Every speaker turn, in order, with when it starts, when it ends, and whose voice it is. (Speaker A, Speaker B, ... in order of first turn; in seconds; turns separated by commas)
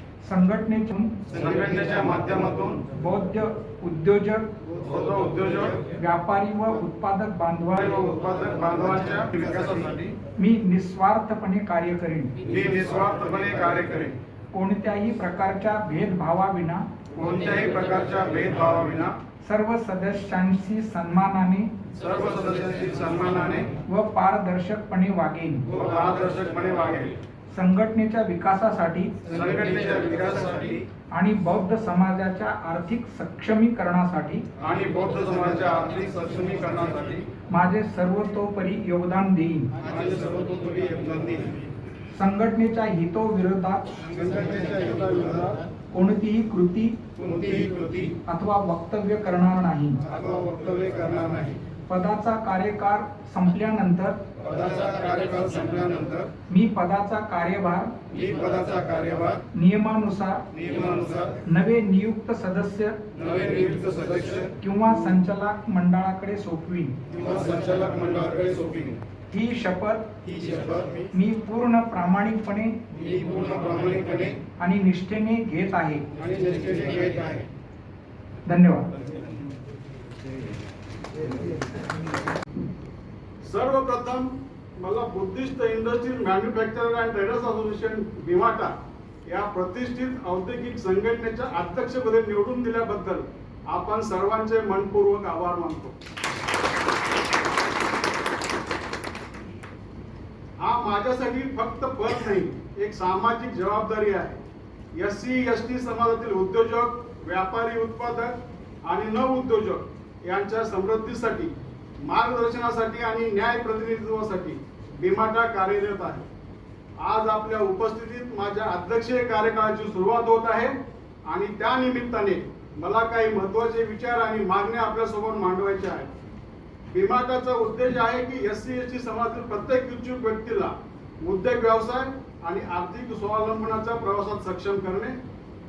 Speaker A: 0.2-1.1, Speaker B: 1.3-2.8, Speaker A: 2.9-4.5, Speaker B: 4.7-5.9, Speaker A: 6.0-8.1, Speaker B: 7.7-10.1, Speaker A: 10.4-12.3, Speaker B: 12.4-14.2, Speaker A: 14.5-16.8, Speaker B: 17.1-19.1, Speaker A: 19.4-21.7, Speaker B: 22.0-23.7, Speaker A: 23.9-25.7, Speaker B: 25.7-27.1, Speaker A: 27.5-29.1, Speaker B: 29.3-30.9, Speaker A: 31.1-34.4, Speaker B: 34.6-37.2, Speaker A: 37.5-39.7, Speaker B: 39.8-41.7, Speaker A: 42.1-43.9, Speaker B: 44.0-45.6, Speaker A: 45.9-47.0, Speaker B: 47.2-48.2, Speaker A: 48.3-50.0, Speaker B: 50.0-51.6, Speaker A: 51.9-54.2, Speaker B: 54.4-56.3, Speaker A: 56.5-57.9, Speaker B: 58.1-59.4, Speaker A: 59.5-60.4, Speaker B: 60.5-61.4, Speaker A: 61.5-63.0, Speaker B: 63.1-64.5, Speaker A: 64.6-67.0, Speaker B: 67.1-69.0, Speaker A: 69.3-70.1, Speaker B: 70.2-71.1, Speaker A: 71.1-72.8, Speaker B: 72.9-74.4, Speaker A: 74.6-76.0, Speaker B: 76.2-77.5, Speaker A: 78.5-78.9, Speaker C: 83.4-88.7, Speaker C: 89.3-95.9, Speaker C: 100.6-104.4, Speaker C: 104.9-111.5, Speaker C: 112.0-116.2, Speaker C: 117.0-120.7, Speaker C: 121.3-126.1, Speaker C: 126.9-135.1